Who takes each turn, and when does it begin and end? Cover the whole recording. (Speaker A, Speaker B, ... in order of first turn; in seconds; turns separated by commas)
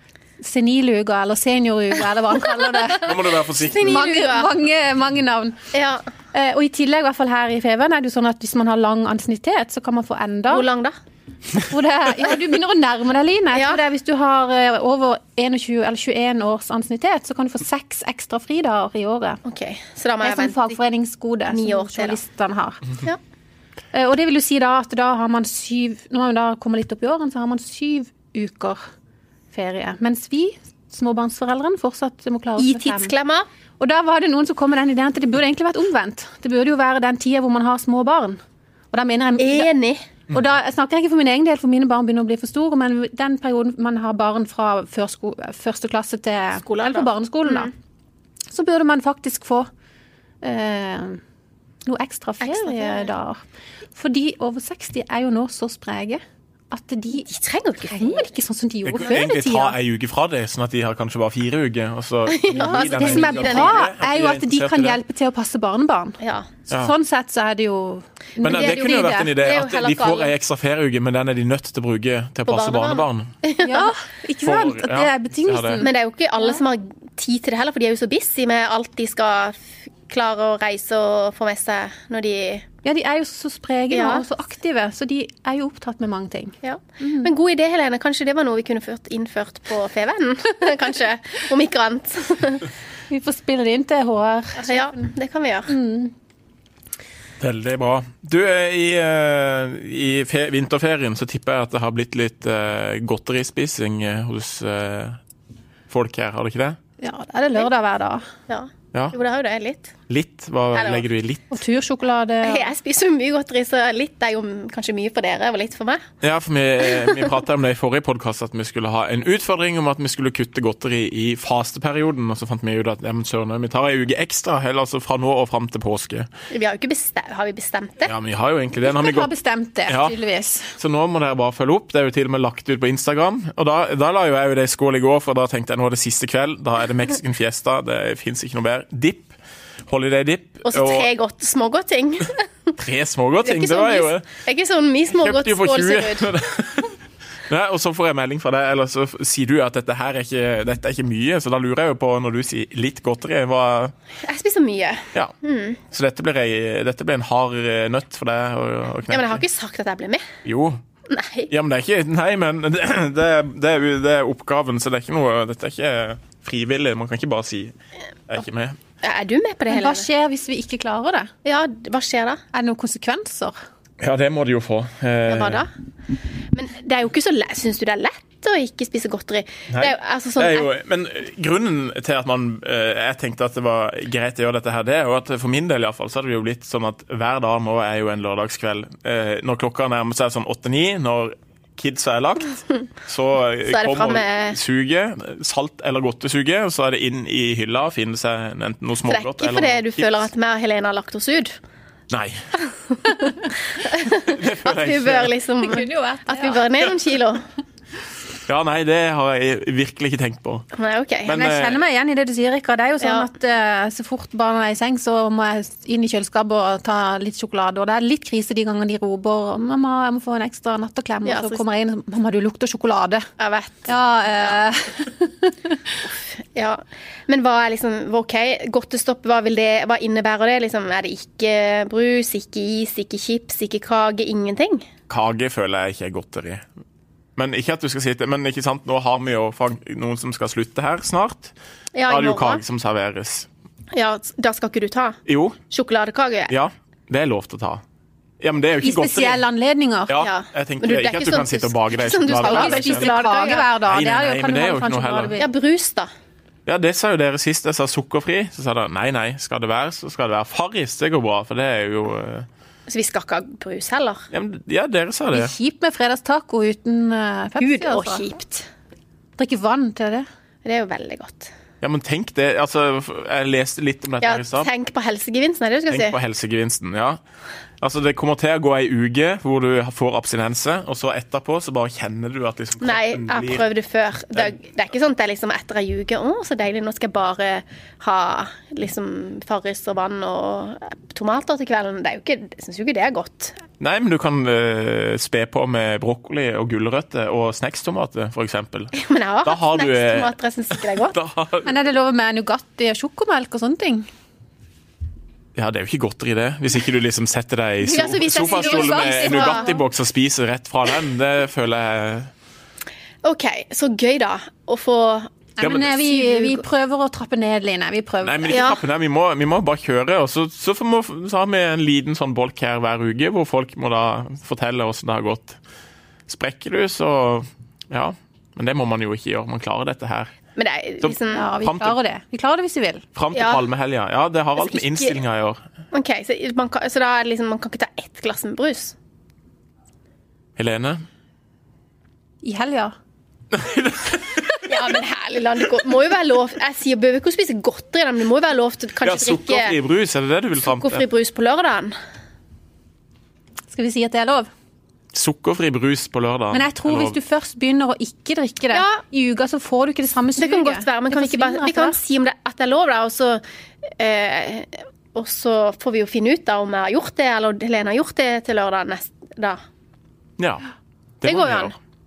Speaker A: 0.4-3.2, Speaker B: 2.9-4.0, Speaker C: 3.5-4.5, Speaker A: 3.8-5.6, Speaker C: 5.7-6.0, Speaker A: 6.3-10.7, Speaker C: 10.5-10.9, Speaker A: 11.6-19.4, Speaker C: 13.5-13.8, Speaker C: 19.4-20.7, Speaker A: 20.2-22.8, Speaker C: 21.5-22.2, Speaker A: 23.9-28.8, Speaker A: 29.5-33.1, Speaker C: 32.6-33.5, Speaker A: 33.8-38.4, Speaker A: 38.9-39.7, Speaker C: 39.4-40.0, Speaker A: 40.3-47.7, Speaker C: 46.6-47.7, Speaker A: 48.5-49.7, Speaker A: 50.4-51.2, Speaker A: 51.9-53.4, Speaker C: 52.4-53.1, Speaker A: 54.0-57.3, Speaker C: 57.2-58.2, Speaker A: 57.9-59.8, Speaker B: 58.9-65.0, Speaker C: 62.3-63.9, Speaker A: 62.6-66.2, Speaker C: 66.2-66.5, Speaker A: 66.7-69.4, Speaker B: 68.4-73.3, Speaker C: 68.5-70.3, Speaker C: 72.5-73.9, Speaker A: 73.6-75.9, Speaker B: 74.4-75.8, Speaker C: 75.8-82.7, Speaker A: 82.8-87.3, Speaker C: 83.9-84.2, Speaker C: 86.6-92.7, Speaker A: 93.1-95.1, Speaker C: 94.6-95.7, Speaker A: 95.7-96.1, Speaker B: 97.4-105.2, Speaker B: 105.9-106.8, Speaker A: 107.0-108.3, Speaker C: 108.5-109.9, Speaker B: 110.1-111.5, Speaker C: 110.7-111.0, Speaker A: 111.5-112.7, Speaker C: 112.4-116.0, Speaker B: 116.2-126.3, Speaker C: 116.9-117.2, Speaker C: 126.5-128.1, Speaker B: 128.1-129.3, Speaker A: 128.8-130.8, Speaker B: 129.9-130.2, Speaker B: 130.8-139.3, Speaker B: 139.9-141.1, Speaker C: 140.7-142.7, Speaker B: 142.8-144.2, Speaker C: 143.4-146.3, Speaker B: 145.2-146.9, Speaker B: 147.5-153.9, Speaker C: 154.2-155.8, Speaker B: 155.8-159.4, Speaker C: 159.1-160.3, Speaker B: 160.4-160.8, Speaker C: 161.1-161.5, Speaker B: 161.5-167.7, Speaker B: 168.3-168.8, Speaker C: 169.0-170.1, Speaker A: 169.7-171.3, Speaker C: 171.4-172.4, Speaker A: 172.5-173.5, Speaker B: 174.0-175.6, Speaker C: 175.3-175.7, Speaker C: 176.5-180.7, Speaker B: 179.7-200.3, Speaker C: 193.7-194.6, Speaker C: 199.1-201.5, Speaker B: 202.1-202.4, Speaker C: 202.7-207.4, Speaker B: 204.0-205.3, Speaker A: 205.6-206.7, Speaker B: 208.4-210.7, Speaker C: 210.7-211.3, Speaker B: 211.2-211.8, Speaker A: 211.3-223.3, Speaker C: 213.0-213.3, Speaker C: 221.2-221.6, Speaker C: 223.4-223.9, Speaker A: 223.9-225.9, Speaker C: 226.0-234.8, Speaker B: 235.1-236.6, Speaker B: 237.3-241.5, Speaker C: 241.9-242.6, Speaker B: 242.1-243.5, Speaker C: 243.9-246.5, Speaker B: 245.3-245.6, Speaker B: 246.5-247.8, Speaker B: 248.4-249.4, Speaker A: 248.8-250.1, Speaker B: 250.1-255.4, Speaker C: 250.2-253.7, Speaker A: 252.4-255.5, Speaker C: 255.4-256.1, Speaker B: 256.6-262.5, Speaker C: 262.9-264.2, Speaker B: 264.3-265.5, Speaker A: 265.3-268.2, Speaker C: 267.6-268.7, Speaker A: 269.4-270.3, Speaker C: 270.6-271.5, Speaker B: 271.8-274.7, Speaker C: 274.2-276.1, Speaker B: 275.9-277.2, Speaker B: 277.8-283.6, Speaker C: 282.8-293.6, Speaker B: 293.8-298.9, Speaker C: 298.9-301.2, Speaker B: 299.4-301.7, Speaker A: 301.6-304.1, Speaker B: 305.6-312.3, Speaker C: 307.8-309.8, Speaker A: 308.4-309.8, Speaker C: 313.2-315.3, Speaker A: 315.6-318.6, Speaker B: 315.6-316.0, Speaker C: 316.1-316.6, Speaker B: 318.2-325.6, Speaker C: 318.5-318.8, Speaker B: 326.3-330.3, Speaker C: 330.6-331.5, Speaker B: 331.0-331.9, Speaker A: 331.3-333.0, Speaker B: 333.1-335.6, Speaker C: 333.3-333.6, Speaker C: 334.6-335.2, Speaker C: 335.9-338.9, Speaker B: 340.6-341.0, Speaker A: 342.4-342.9, Speaker B: 343.5-344.7, Speaker C: 344.6-349.8, Speaker B: 349.0-351.0, Speaker C: 350.7-351.9, Speaker A: 353.7-354.5, Speaker B: 355.1-357.1, Speaker A: 356.5-362.0, Speaker C: 358.7-359.0, Speaker C: 360.4-363.4, Speaker C: 364.0-369.6, Speaker B: 370.4-370.6, Speaker B: 371.2-371.7, Speaker C: 371.2-371.7